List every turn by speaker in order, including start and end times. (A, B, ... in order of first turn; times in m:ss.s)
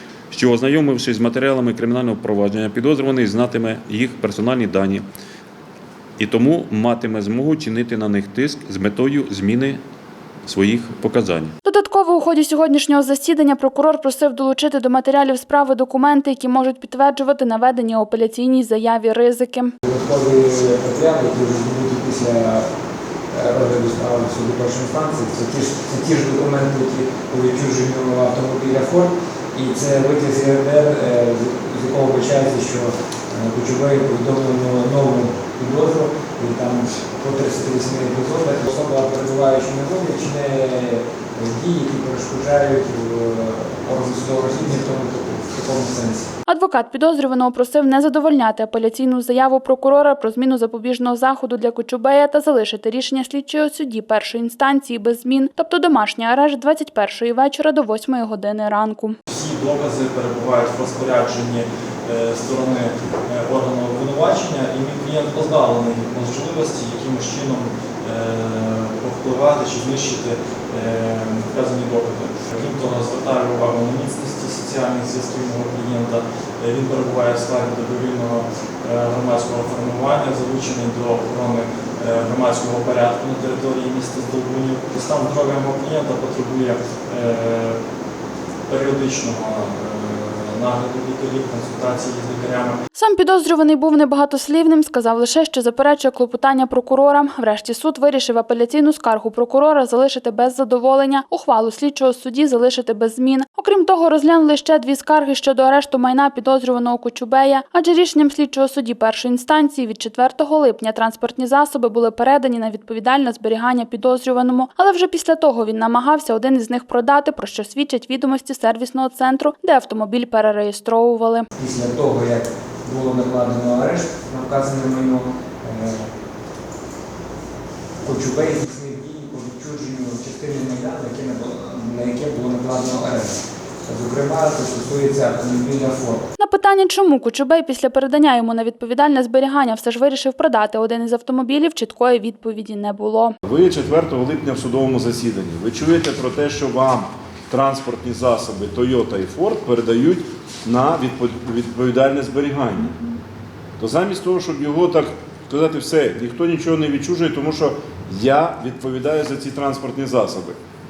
0:00.3-0:05.0 A
0:06.2-0:09.8 A
0:10.4-0:11.5 A
0:11.6-0:19.7 B
0:19.8-0:22.7 C
0:23.3-0:46.3 C
0:46.5-0:59.2 B
0:59.3-1:27.8 D
1:28.7-1:32.8 D
1:33.0-2:01.5 B
2:01.6-2:06.1 C
2:08.0-2:16.2 C
2:16.4-2:23.4 B
2:23.4-2:33.0 E
2:33.8-2:40.6 E